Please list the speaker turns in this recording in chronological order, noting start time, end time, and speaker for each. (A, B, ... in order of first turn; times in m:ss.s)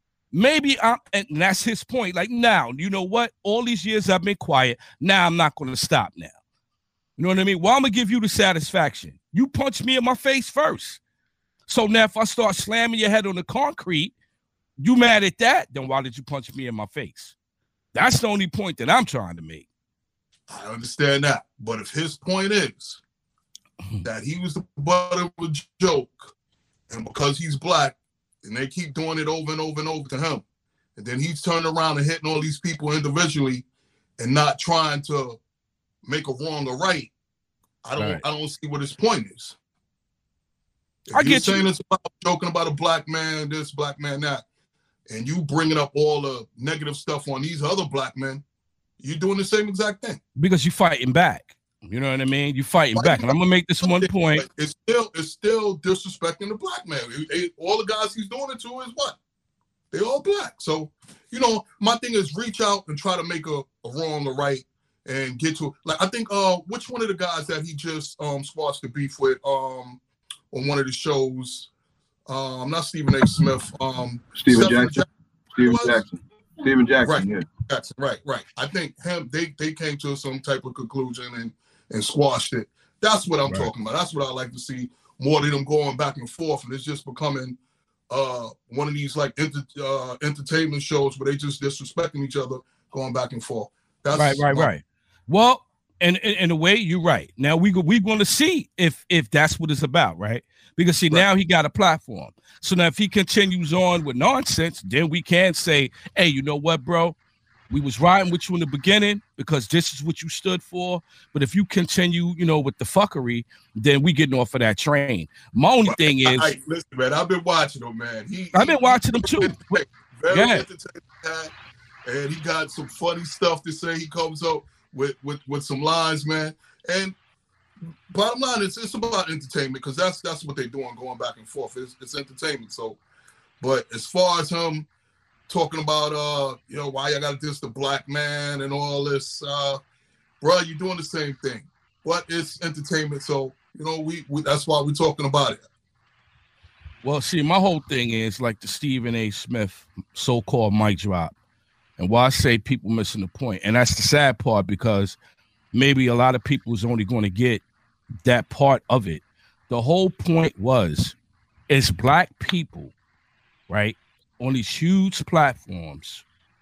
0:00.3-0:06.3 A
0:07.2-0:11.0 A
0:11.7-0:14.1 A
0:14.8-0:17.4 A
0:17.9-0:19.6 A
0:20.5-0:23.0 B
0:24.0-0:26.3 B
0:26.9-0:30.4 B
0:31.0-0:33.6 B
0:34.2-0:35.4 B
0:36.0-0:37.1 B
0:37.8-0:39.6 B
0:38.0-0:38.2 A
0:41.1-0:44.4 B
0:41.1-0:41.7 A
0:45.1-0:48.4 B
0:49.0-0:50.2 B
0:50.4-0:54.5 A
0:53.0-0:59.2 B
0:59.9-1:10.0 B
1:10.5-1:11.7 B
1:12.3-1:15.1 B
1:14.4-1:15.0 C
1:15.6-1:17.5 C
1:15.6-1:16.0 B
1:17.0-1:27.6 B
1:28.1-1:34.7 B
1:34.1-1:47.2 A
1:47.7-1:56.5 A
1:55.9-2:01.5 B
1:58.5-2:00.6 A
2:02.1-2:07.2 B
2:08.1-2:13.0 B
2:13.6-2:14.9 B
2:15.5-2:19.8 B
2:20.4-2:25.6 B
2:27.0-2:31.3 A
2:32.0-2:35.2 A
2:35.7-2:37.6 A
2:38.2-2:41.2 A
2:41.7-2:42.9 A
2:43.7-2:46.2 A